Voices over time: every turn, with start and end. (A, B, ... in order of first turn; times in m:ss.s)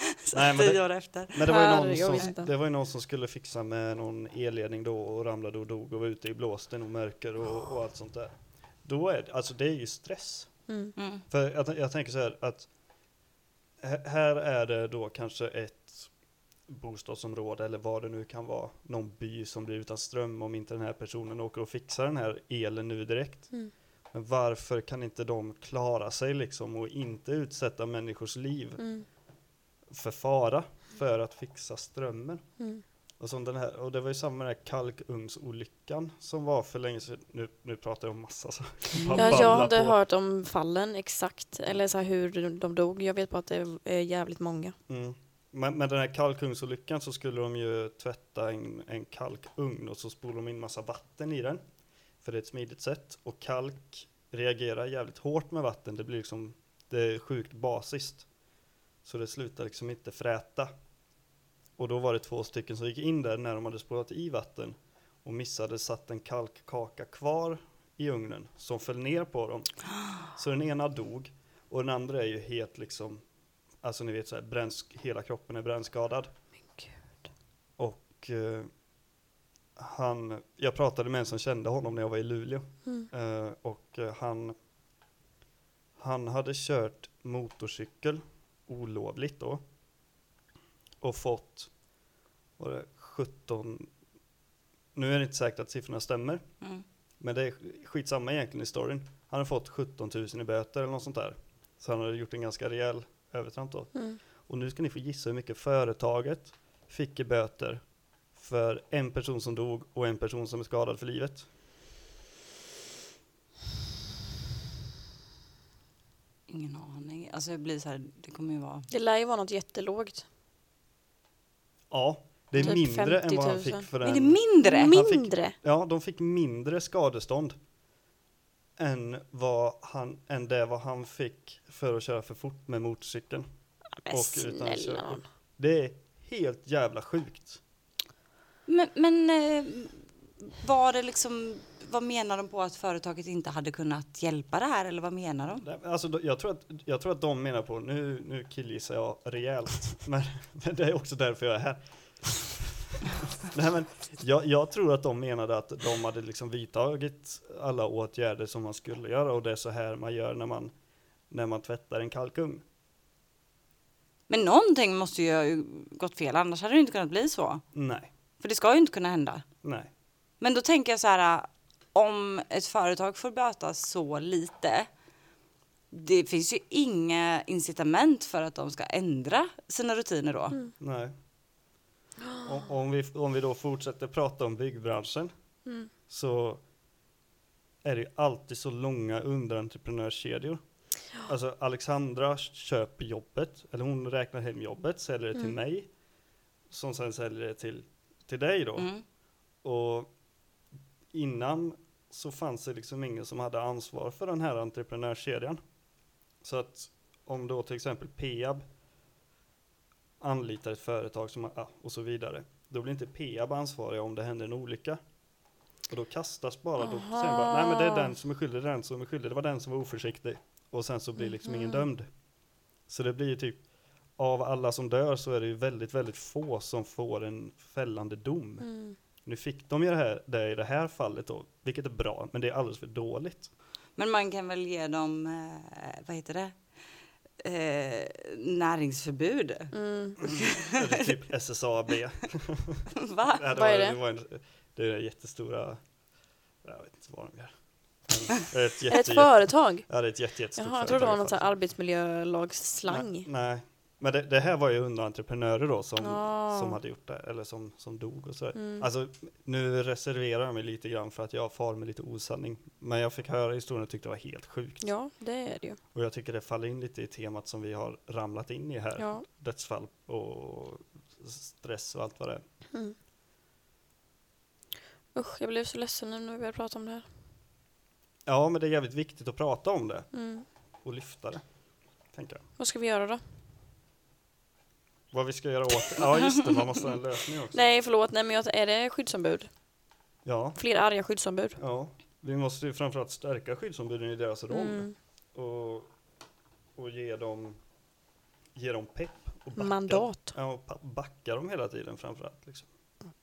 0:00.2-0:02.3 A
0:00.3-0:10.7 B
0:01.5-0:02.5 C
0:10.7-0:10.9 C
0:11.0-0:11.2 A
0:11.3-0:12.7 B
0:13.8-0:16.1 B
0:16.6-0:28.9 B
0:28.8-0:29.1 C
0:29.9-0:40.0 B
0:32.6-0:32.8 C
0:39.0-0:39.6 A
0:39.1-0:44.8 C
0:44.9-0:51.6 B
0:52.2-0:58.3 B
0:59.0-1:00.7 B
1:01.8-1:13.3 B
1:13.8-1:16.4 B
1:16.7-1:17.2 C
1:17.8-1:18.8 B
1:19.8-1:24.6 B
1:26.0-1:29.6 B
1:31.0-1:31.8 B
1:32.6-1:33.9 B
1:35.0-1:36.6 B
1:37.2-1:51.5 B
1:43.9-1:44.2 C
1:56.5-1:58.9 A
1:58.9-2:00.3 C
2:01.9-2:07.6 B
2:02.6-2:03.9 C
2:04.0-2:05.0 A
2:04.6-2:05.6 C
2:08.8-2:13.5 B
2:14.0-2:15.2 C
2:14.1-2:17.6 B
2:18.7-2:25.7 A
2:25.6-2:40.7 B
2:41.3-2:42.6 B
2:44.3-2:47.6 A
2:47.7-2:48.1 B
2:48.4-2:49.4 A
2:49.6-2:49.9 B
2:50.4-2:54.9 A
2:55.9-3:00.6 A
3:00.8-3:01.1 B
3:02.4-3:05.3 B
3:05.6-3:05.9 C
3:06.1-3:06.6 B
3:07.8-3:15.9 B
3:16.7-3:18.9 B
3:18.8-3:19.0 A
3:19.6-3:20.2 B
3:21.1-3:25.6 B
3:26.4-3:28.6 B
3:30.2-3:35.1 B
3:35.8-3:42.2 B
3:36.8-3:38.1 C
3:41.2-3:41.9 C
3:42.8-3:53.5 B
3:48.6-3:49.0 C
3:54.0-3:56.8 A
3:57.4-3:59.8 A
3:59.7-4:00.2 C
4:00.4-4:05.9 B
4:03.0-4:03.4 A
4:03.5-4:04.0 C
4:06.6-4:11.5 B
4:08.9-4:13.3 C
4:12.9-4:24.9 B
4:16.0-4:16.8 C
4:18.6-4:18.9 C
4:24.8-4:25.8 C
4:25.9-4:32.4 B
4:29.0-4:29.2 C
4:35.2-4:37.1 C
4:38.3-4:42.4 B
4:40.1-4:40.5 C
4:42.6-4:43.2 C
4:45.1-4:47.6 B
4:47.5-4:49.5 C
4:50.2-4:50.6 B
4:50.6-4:51.6 C
4:51.6-4:55.9 B
4:54.5-4:55.0 C
4:56.8-4:57.6 B
4:58.6-5:02.7 B
4:59.6-5:00.4 C